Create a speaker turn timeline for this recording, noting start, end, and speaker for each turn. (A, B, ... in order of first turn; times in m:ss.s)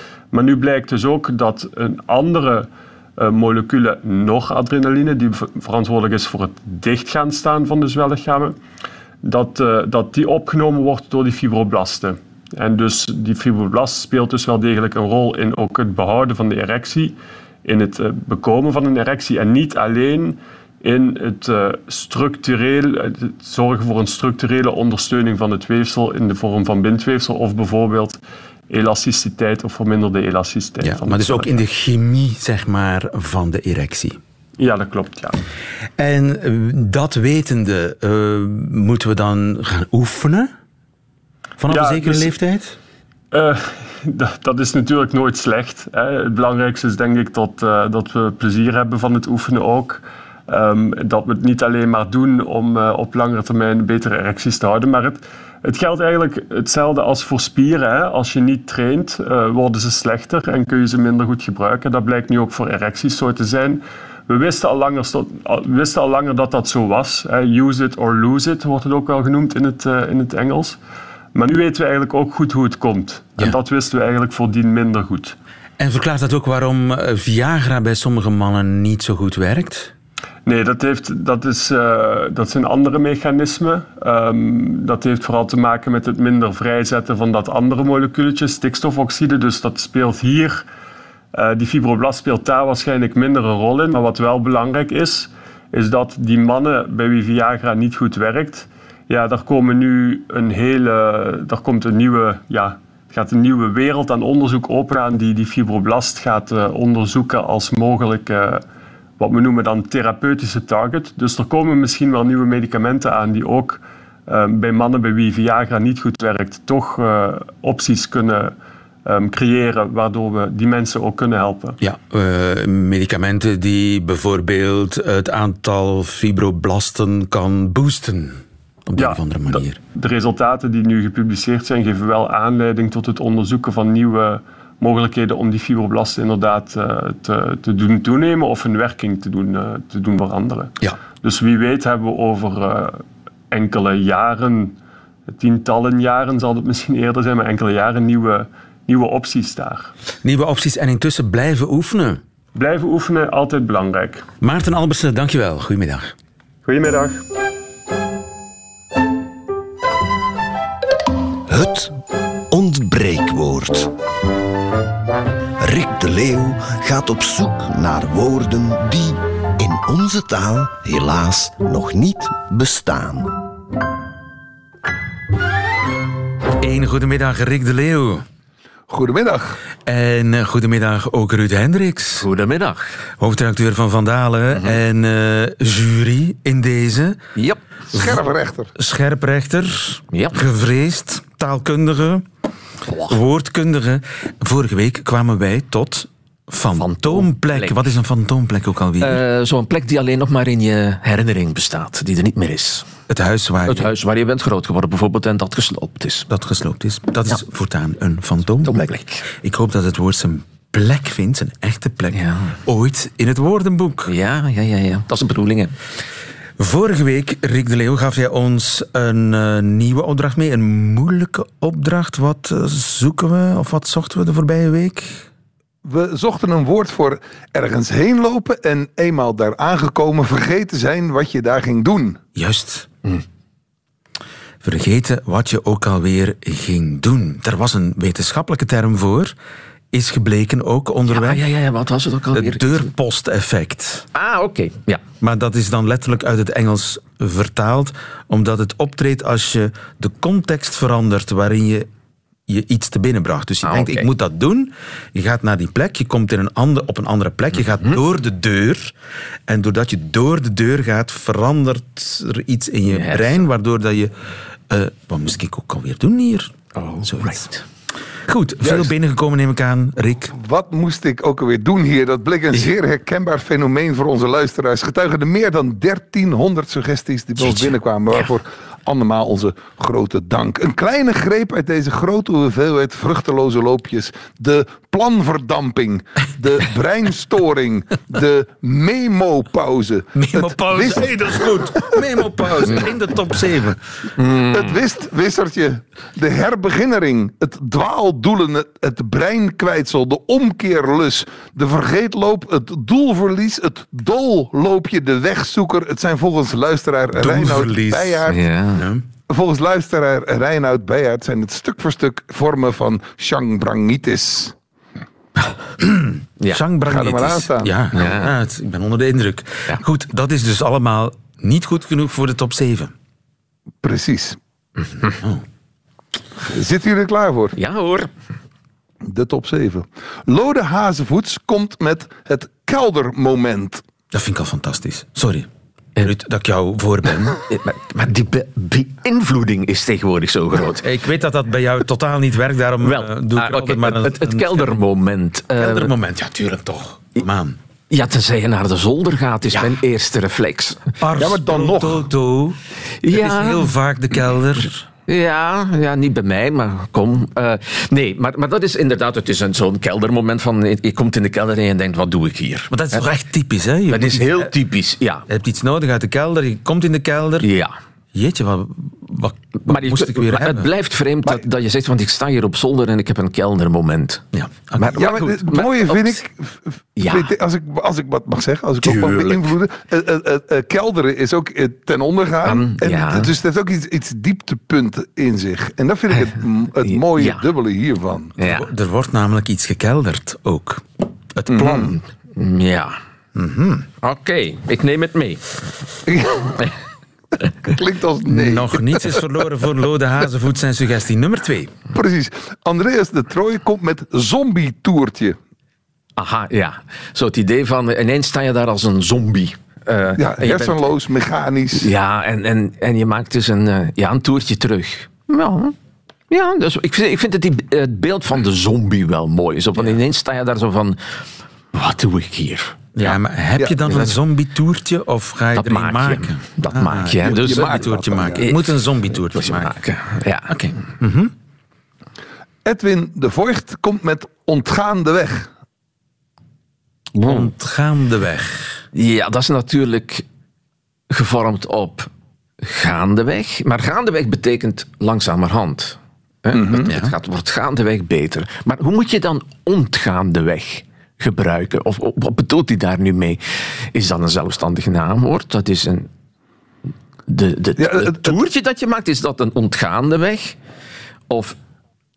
0:00.3-0:08.6 A
0:09.2-0:28.2 A
0:28.7-0:31.5 A
0:30.8-0:34.2 B
0:34.6-0:35.4 A
0:36.0-0:40.5 B
0:41.6-0:42.8 B
0:41.7-0:42.3 A
0:43.3-1:10.8 A
1:11.3-1:15.4 A
1:15.8-1:19.9 B
1:20.4-1:30.6 A
1:31.3-1:48.6 A
1:49.2-2:01.8 A
2:01.8-2:09.8 B
2:09.0-2:24.8 A
2:25.3-2:29.9 A
2:30.2-2:32.2 B
2:32.5-2:34.2 A
2:34.4-2:36.1 B
2:36.6-2:37.2 A
2:41.5-2:41.9 C
2:42.5-2:43.9 C
2:45.6-2:53.3 C
2:56.6-2:58.2 B
2:58.9-2:59.6 D
2:59.8-3:02.3 B
3:02.2-3:03.0 E
3:03.2-3:07.2 B
3:07.4-3:07.6 E
3:07.9-3:08.7 D
3:07.9-3:08.2 B
3:08.8-3:12.2 B
3:10.1-3:10.4 E
3:12.9-3:13.2 E
3:13.1-3:19.2 B
3:16.8-3:17.9 E
3:19.0-3:22.9 E
3:23.1-3:23.9 B
3:23.7-3:26.3 E
3:26.3-3:28.8 B
3:28.6-3:29.2 E
3:29.3-3:34.1 B
3:32.1-3:32.5 E
3:34.1-3:35.7 E
3:36.6-3:45.2 B
3:45.8-3:52.2 D
3:52.4-3:52.9 B
3:54.6-3:59.3 B
3:59.9-4:01.4 B
4:01.1-4:02.8 E
4:02.3-4:04.0 B
4:04.1-4:05.0 E
4:05.2-4:11.9 B
4:12.5-4:18.9 B
4:13.6-4:14.1 E
4:19.5-4:24.1 B
4:22.9-4:23.4 E
4:24.7-4:27.5 B
4:26.7-4:27.6 E
4:28.3-4:30.3 B
4:28.6-4:28.9 D
4:30.4-4:52.0 D
4:37.4-4:37.7 E
4:50.1-4:54.1 B
4:54.2-4:54.8 E
4:54.4-5:08.4 D
5:07.2-5:09.0 B
5:08.3-5:08.8 E
5:09.3-5:14.5 D
5:15.8-5:22.9 B
5:16.8-5:17.7 D
5:17.9-5:18.3 E
5:23.8-5:24.4 D
5:26.4-5:27.5 D
5:27.6-5:28.1 E
5:29.0-5:33.8 D
5:34.1-5:35.5 B
5:36.0-5:37.4 B
5:37.4-5:40.9 E
5:40.8-5:44.8 B
5:42.8-5:45.9 E
5:45.5-5:47.6 B
5:47.9-5:50.9 E
5:51.0-5:54.8 B
5:51.2-5:52.1 D
5:53.0-5:53.7 E
5:55.1-6:03.1 E
6:02.7-6:04.5 B
6:03.9-6:05.2 E
6:05.3-6:07.5 B
6:07.4-6:07.7 E
6:08.1-6:10.7 B
6:09.6-6:16.2 E
6:14.3-6:15.1 B
6:14.9-6:28.3 D
6:17.0-6:17.3 E
6:18.8-6:19.6 E
6:22.4-6:23.3 E
6:26.8-6:27.4 E
6:28.4-6:28.7 E
6:28.4-6:31.9 B
6:31.5-6:31.9 D
6:31.6-6:33.0 E
6:33.3-6:33.9 B
6:34.0-6:35.4 E
6:36.0-6:36.7 D
6:37.6-6:39.2 D
6:38.2-6:41.7 B
6:41.9-6:45.4 D
6:46.2-6:50.8 E
6:50.2-6:51.9 D
6:51.8-6:55.7 E
6:56.3-7:03.2 E
7:02.9-7:09.8 B
7:03.9-7:04.1 E
7:05.5-7:10.7 E
7:07.2-7:08.4 D
7:10.5-7:11.3 B
7:12.6-7:15.5 D
7:17.2-7:18.8 B
7:18.9-7:20.2 E
7:21.1-7:22.1 E
7:22.6-7:36.1 E
7:26.5-7:26.9 D
7:26.8-7:27.1 B
7:37.3-7:40.6 E
7:37.8-7:38.3 D
7:41.3-7:41.6 E